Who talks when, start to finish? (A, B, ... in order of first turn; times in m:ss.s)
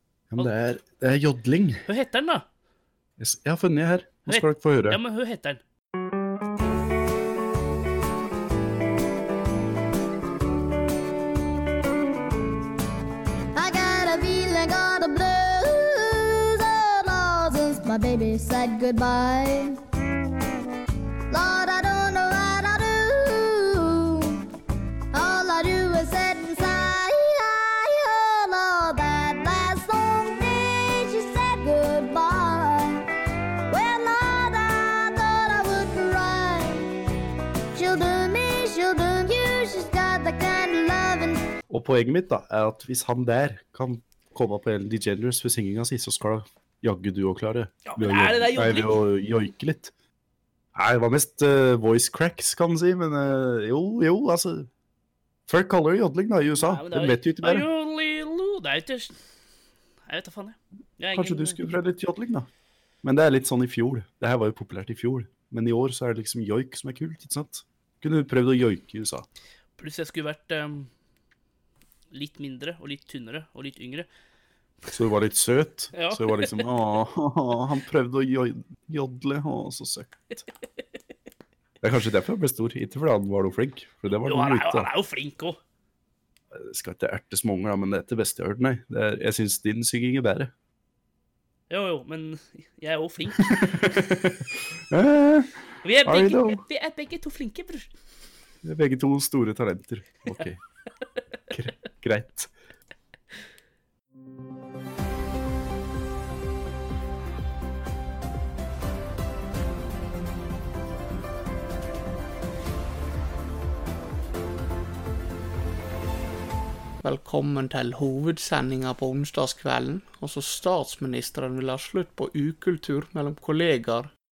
0:00.3-0:01.9 A
0:01.9-0:02.5 B
0:03.2-0:05.0 A
0:04.3-0:05.6 B
0:13.6-0:19.8 C
0:21.3-0:24.5 C
0:25.1-0:33.1 C
0:33.7-0:36.9 C
0:37.8-0:41.4 C
0:41.7-0:49.9 A
0:47.9-0:49.0 B
0:50.8-0:54.7 A
0:55.5-0:57.7 A
0:56.6-0:59.2 B
1:00.1-1:01.6 B
1:01.1-1:02.5 A
1:03.0-1:09.3 A
1:09.8-1:10.9 B
1:12.1-1:14.1 B
1:14.9-1:20.4 A
1:15.9-1:16.7 B
1:21.8-1:24.9 A
1:24.3-1:25.6 B
1:26.5-1:30.5 A
1:31.7-1:33.6 B
1:33.4-1:36.6 A
1:35.8-1:37.9 B
1:38.6-1:40.6 A
1:41.5-1:42.5 A
1:57.0-2:04.1 D